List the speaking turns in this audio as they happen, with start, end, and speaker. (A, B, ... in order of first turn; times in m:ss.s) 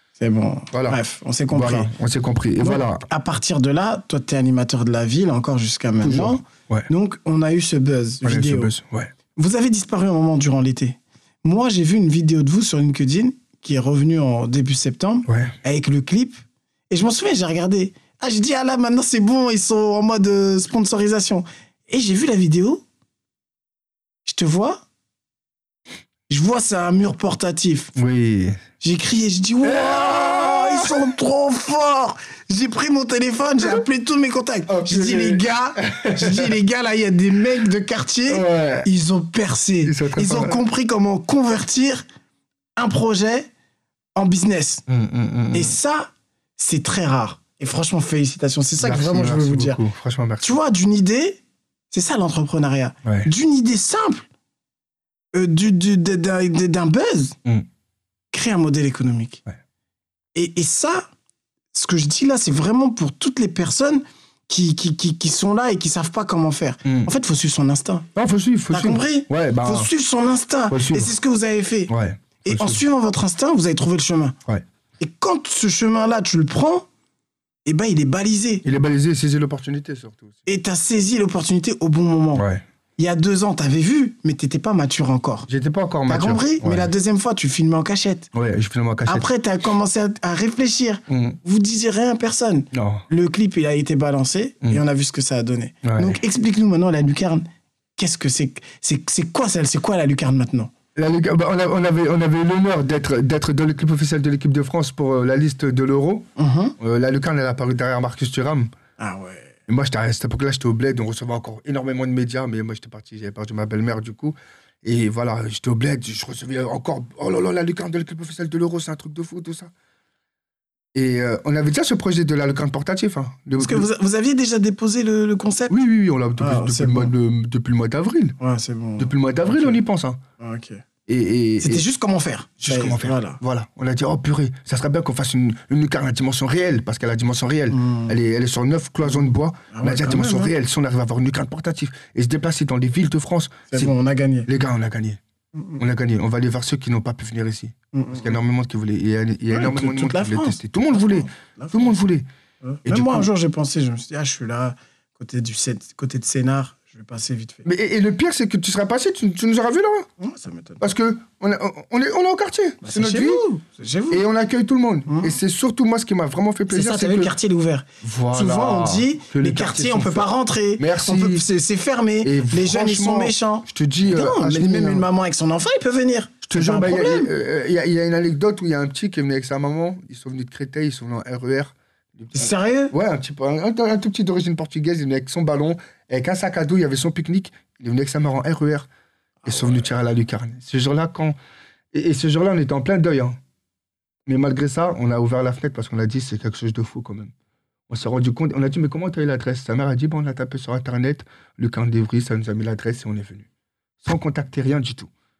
0:00.2-0:01.9 A
0:00.7-0:01.0 B
0:01.5-0:03.0 B
0:02.6-0:08.7 A
0:06.0-0:06.9 B
0:08.2-0:09.1 B
0:09.4-0:16.4 A
0:15.3-0:15.5 B
0:16.9-0:22.8 A
0:24.2-0:24.8 A
0:26.3-0:27.9 A
0:28.0-0:28.6 B
0:28.8-0:42.0 A
0:29.6-0:31.1 B
0:34.7-0:36.6 B
0:38.3-0:38.9 B
0:39.8-0:40.6 B
0:42.8-0:43.5 A
0:44.2-0:44.8 A
0:44.9-0:45.7 B
0:45.5-0:49.8 A
0:48.8-0:50.6 B
0:50.4-0:51.4 A
0:51.9-0:54.3 A
0:55.3-0:57.4 A
0:58.3-0:59.4 A
1:00.3-1:01.1 A
1:01.7-1:08.1 A
1:06.8-1:07.1 B
1:08.2-1:09.9 B
1:08.7-1:14.4 A
1:10.7-1:11.1 B
1:11.9-1:12.8 B
1:15.0-1:16.8 A
1:17.6-1:18.6 A
1:18.6-1:20.4 B
1:20.4-1:22.4 A
1:22.3-1:22.6 B
1:23.0-1:25.5 A
1:25.5-1:26.9 B
1:26.1-1:28.3 A
1:28.3-1:29.3 B
1:29.1-1:37.4 A
1:31.1-1:31.4 B
1:32.7-1:33.0 B
1:35.8-1:36.2 B
1:38.0-1:40.7 A
1:40.9-1:48.7 B
1:46.4-1:46.7 A
1:49.0-1:49.6 A
1:49.7-1:59.7 B
2:00.9-2:03.9 B
2:03.6-2:05.7 A
2:05.7-2:08.4 B
2:06.4-2:07.1 A
2:08.4-2:09.8 A
2:09.0-2:10.2 B
2:10.4-2:10.8 A
2:11.1-2:11.8 B
2:11.6-2:13.4 A
2:12.6-2:23.9 B
2:17.7-2:18.1 A
2:19.1-2:20.5 A
2:23.7-2:24.5 A
2:24.5-2:25.2 B
2:25.8-2:32.2 B
2:27.9-2:28.4 A
2:29.5-2:32.0 A
2:32.6-2:37.7 A
2:32.8-2:33.3 B
2:37.6-2:40.1 B
2:40.2-2:40.8 A
2:40.8-2:43.4 B
2:42.8-2:44.2 A
2:44.1-2:47.3 B
2:45.1-2:45.3 A
2:46.7-2:57.3 A
2:48.0-2:51.4 B
2:52.2-2:55.1 B
2:56.4-3:08.9 B
3:02.3-3:02.9 A
3:09.4-3:11.4 B
3:11.9-3:13.4 B
3:14.3-3:17.3 B
3:17.9-3:23.5 B
3:24.0-3:25.1 B